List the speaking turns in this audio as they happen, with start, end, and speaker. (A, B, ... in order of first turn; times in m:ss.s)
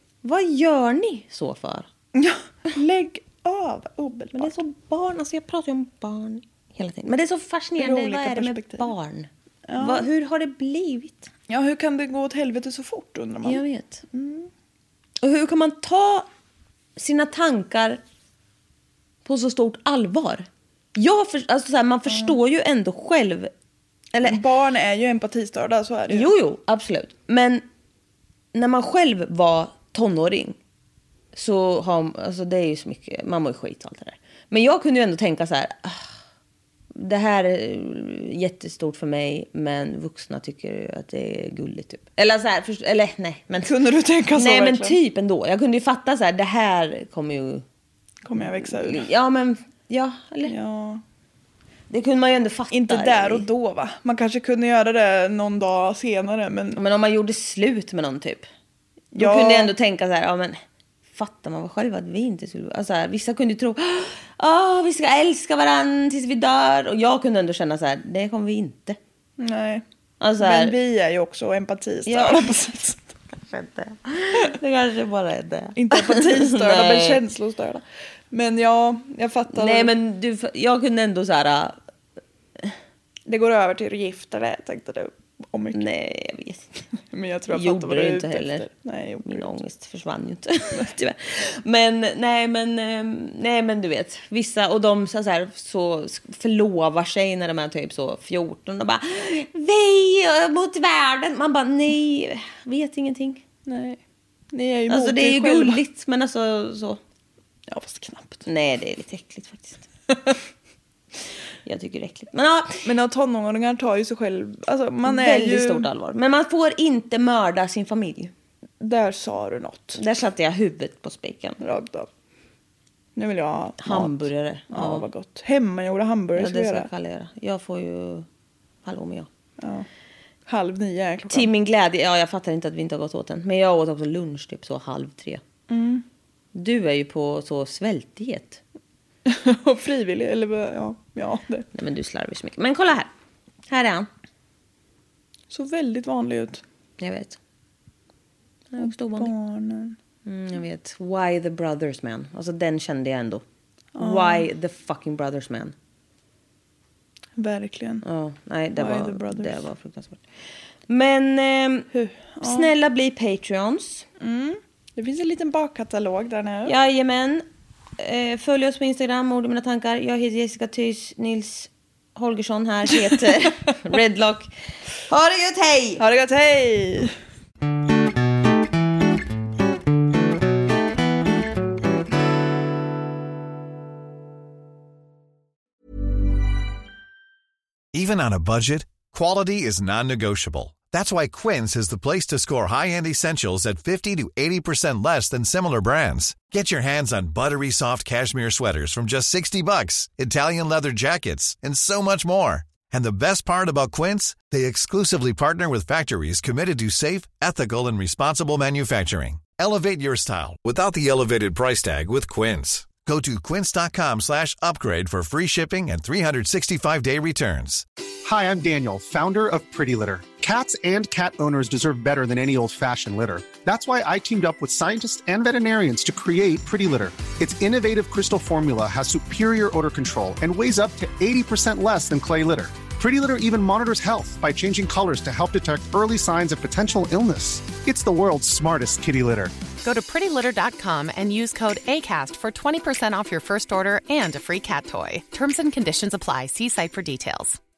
0:00.2-0:01.9 A
0:02.1-0:04.6 B
0:04.3-0:11.3 A
0:07.8-0:08.9 B
0:09.7-0:10.1 B
0:11.5-0:14.5 B
0:13.4-0:14.0 A
0:15.2-0:16.3 A
0:17.0-0:18.0 A
0:19.2-0:23.5 A
0:24.1-0:24.4 A
0:24.2-0:26.3 B
0:26.1-0:27.6 A
0:28.5-0:30.6 A
0:31.3-0:36.1 A
0:36.9-0:43.7 A
0:43.6-0:45.0 B
0:44.3-0:47.6 A
0:48.2-0:49.0 B
0:48.4-0:50.5 A
0:50.4-0:51.0 B
0:51.9-0:53.5 A
0:52.7-0:56.8 B
0:56.7-0:58.5 A
0:59.1-0:59.7 B
0:59.2-1:00.6 A
1:01.1-1:09.0 A
1:09.4-1:09.8 B
1:10.2-1:10.8 A
1:10.4-1:13.1 B
1:12.0-1:12.4 A
1:13.3-1:17.2 A
1:15.7-1:19.9 B
1:19.5-1:21.8 A
1:23.2-1:25.9 B
1:25.7-1:26.8 A
1:27.1-1:29.6 B
1:27.5-1:28.7 A
1:29.2-1:43.4 A
1:43.6-1:44.0 B
1:44.5-1:45.8 B
1:44.9-1:47.0 A
1:47.7-1:48.4 B
1:48.4-1:49.8 A
1:51.6-1:52.9 A
1:52.8-1:55.9 B
1:55.0-1:58.3 A
1:58.8-2:00.0 B
2:00.0-2:01.6 A
2:01.6-2:02.1 B
2:03.2-2:06.9 B
2:03.8-2:05.1 A
2:06.4-2:08.2 A
2:08.8-2:09.3 A
2:09.6-2:09.9 B
2:10.4-2:11.5 B
2:11.3-2:15.4 A
2:15.7-2:16.0 B
2:16.5-2:18.6 A
2:19.2-2:21.7 B
2:21.7-2:23.1 A
2:23.7-2:24.1 A
2:25.5-2:26.6 B
2:27.0-2:27.4 A
2:28.7-2:29.3 A
2:28.8-2:30.0 B
2:30.2-2:33.4 A
2:34.0-2:34.4 B
2:34.0-2:35.7 A
2:37.4-2:38.0 B
2:38.0-2:40.2 A
2:38.8-2:39.6 B
2:40.9-2:41.9 A
2:41.9-2:42.7 B
2:42.4-2:44.1 A
2:44.2-2:46.8 B
2:46.6-2:47.4 A
2:48.0-2:54.5 A
2:55.0-2:56.0 A
2:56.0-2:57.1 B
3:07.9-3:37.8 C
3:38.2-3:59.5 D
3:59.8-4:07.6 E